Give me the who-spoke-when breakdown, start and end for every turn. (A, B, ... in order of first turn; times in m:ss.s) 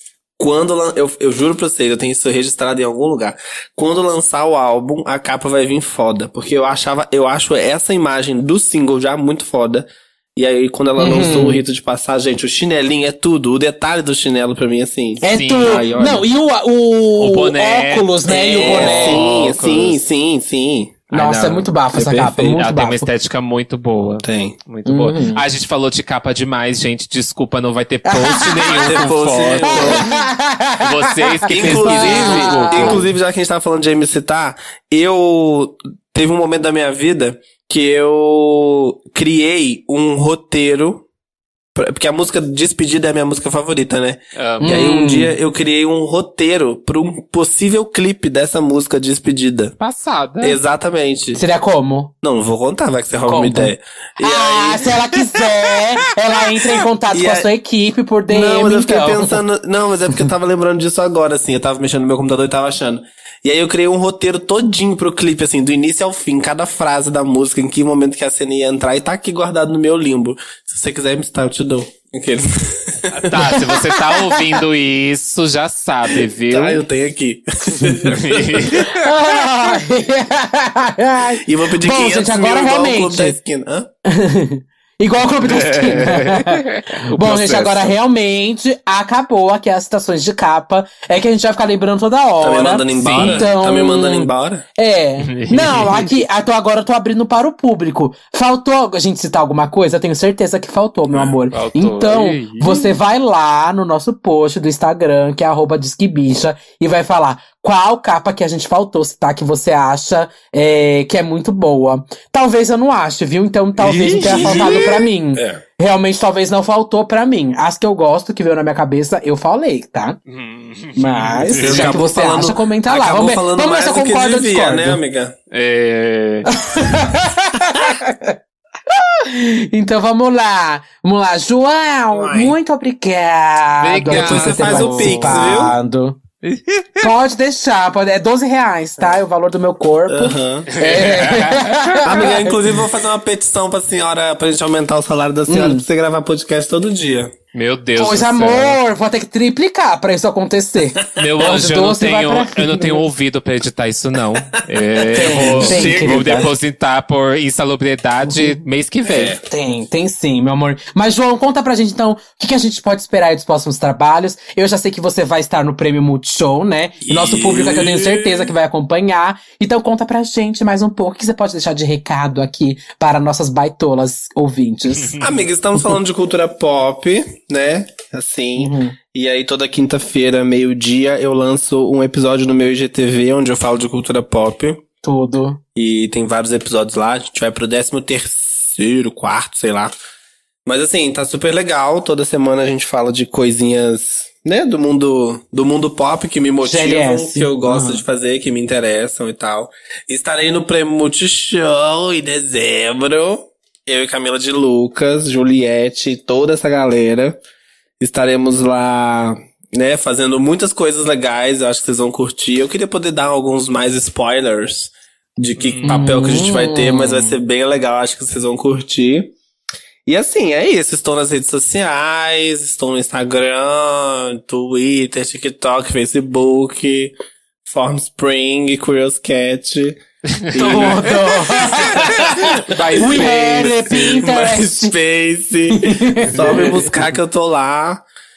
0:00.4-0:16.2 A
0:11.0-0:11.6 B
0:15.2-0:19.2 B
0:15.3-0:15.9 C
0:17.2-0:20.0 C
0:18.3-0:21.0 A
0:21.1-0:21.7 C
0:21.1-0:23.1 B
0:21.9-0:22.6 A
0:22.4-0:30.1 C
0:24.2-0:24.6 A
0:24.8-0:25.4 B
0:28.0-0:29.1 B
0:28.7-0:30.0 A
0:29.7-0:33.0 B
0:30.8-0:33.1 C
0:31.5-0:41.0 A
0:41.7-0:49.7 A
0:44.4-0:44.8 C
0:44.6-0:45.4 B
0:49.8-0:50.6 C
0:50.4-0:51.4 A
0:51.4-0:52.1 B
0:52.2-0:55.0 A
0:53.2-0:59.4 B
0:57.1-0:57.5 A
0:58.3-1:13.4 A
1:13.3-1:16.8 C
1:13.4-1:14.4 B
1:16.5-1:18.9 A
1:18.1-1:18.9 C
1:18.8-1:23.4 B
1:21.4-1:23.9 A
1:24.0-2:00.2 B
1:25.4-1:27.9 C
1:32.4-1:34.6 A
1:33.0-1:33.5 C
1:35.2-1:36.1 C
1:41.1-1:41.4 A
1:41.5-1:42.9 C
1:53.8-1:55.6 A
1:54.0-1:54.9 C
2:00.3-2:02.0 C
2:01.0-2:05.0 B
2:01.6-2:05.3 A
2:05.5-2:06.5 C
2:06.4-2:08.4 B
2:08.9-2:16.2 B
2:12.1-2:12.6 A
2:13.8-2:15.7 C
2:14.1-2:15.7 A
2:16.4-2:17.1 C
2:17.0-2:22.6 B
2:20.1-2:20.7 A
2:20.7-2:22.0 C
2:22.0-2:27.3 A
2:25.5-2:25.8 B
2:27.5-2:28.8 C
2:28.0-2:33.0 B
2:31.0-2:31.3 A
2:31.2-2:39.4 C
2:35.0-2:36.5 A
2:35.1-2:36.5 B
2:38.3-2:38.6 B
2:39.0-2:39.4 A
2:39.4-2:55.1 B
2:47.0-2:48.5 A
2:55.0-2:55.4 C
2:55.2-3:04.8 A
2:58.6-2:58.9 B
3:05.0-3:05.6 B
3:05.7-3:09.9 A
3:10.6-3:27.4 A
3:16.6-3:18.0 B
3:28.0-3:39.3 A
3:35.6-3:36.0 C
3:35.8-3:37.4 B
3:40.0-3:47.1 A
3:47.6-3:58.0 A
3:50.4-3:51.0 C
3:50.6-3:54.9 B
3:51.9-3:54.0 C
3:55.7-3:56.8 B